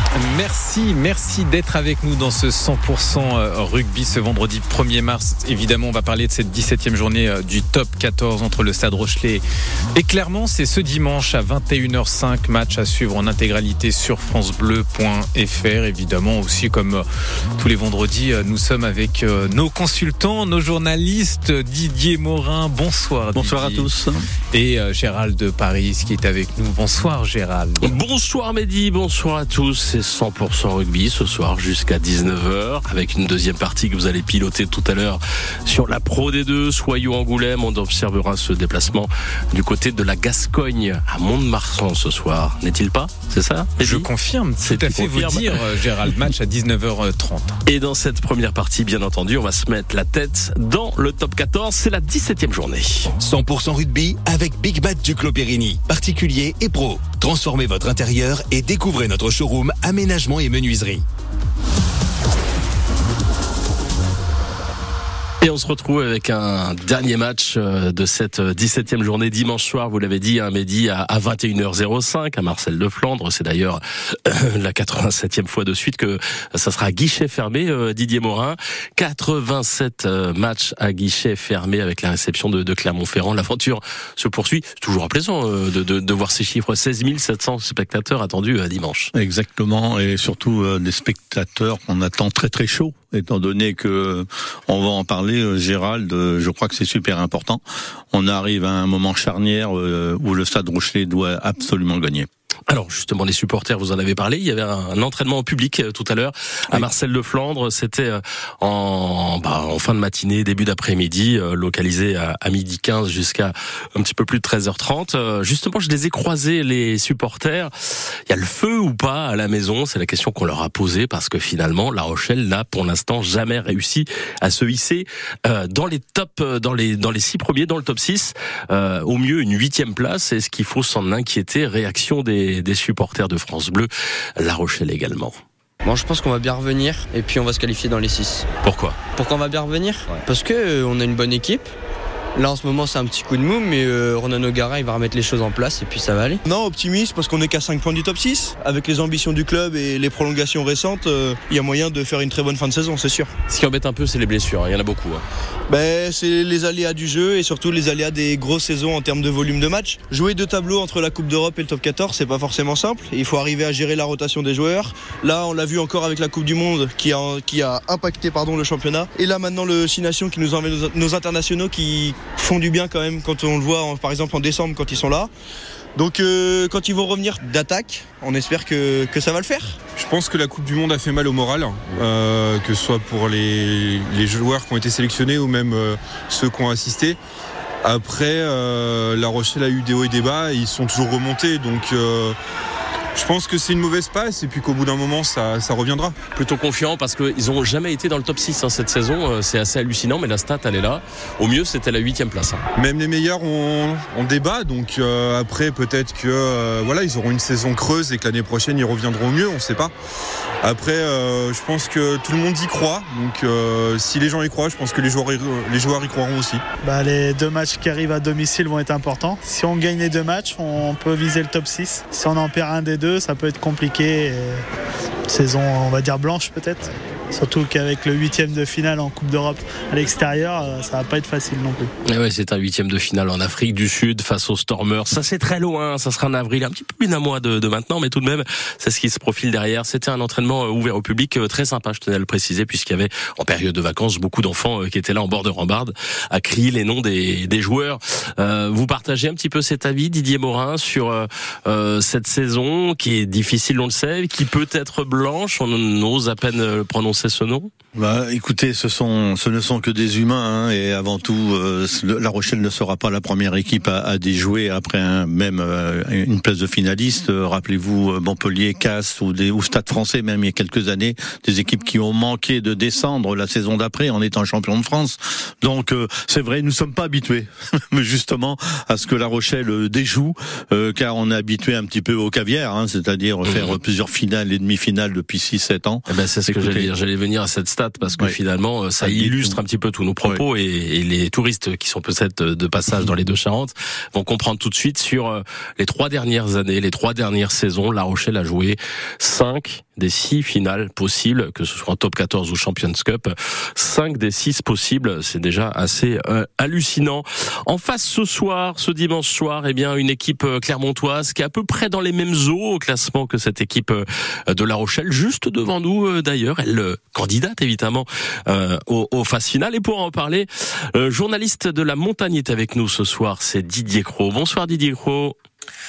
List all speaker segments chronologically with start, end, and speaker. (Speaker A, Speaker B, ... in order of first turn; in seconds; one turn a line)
Speaker A: 0.2-9.4
Speaker A: 9.9-17.0
Speaker A: 17.6-23.9
Speaker B: 23.3-24.2
Speaker A: 24.5-28.0
Speaker C: 27.8-44.1
Speaker A: 43.8-47.5
Speaker C: 44.6-45.6
Speaker C: 47.6-53.1
Speaker D: 53.2-61.0
Speaker C: 65.4-89.1
Speaker B: 89.1-102.3
Speaker C: 102.7-117.7
Speaker C: 118.3-135.4
Speaker E: 135.8-138.5
Speaker C: 138.6-139.0
Speaker E: 139.1-141.7
Speaker E: 142.3-146.4
Speaker F: 146.4-153.3
Speaker C: 153.5-155.2
Speaker F: 155.7-175.3
Speaker F: 175.9-179.8
Speaker G: 179.9-187.2
Speaker G: 187.8-192.3
Speaker G: 193.1-196.2
Speaker C: 196.3-202.6
Speaker G: 202.8-209.9
Speaker G: 210.6-216.6
Speaker H: 216.8-224.6
Speaker H: 225.3-231.9
Speaker C: 232.1-257.7
Speaker B: 257.9-286.9
Speaker C: 283.4-283.8
Speaker C: 286.1-325.4
Speaker B: 289.0-289.6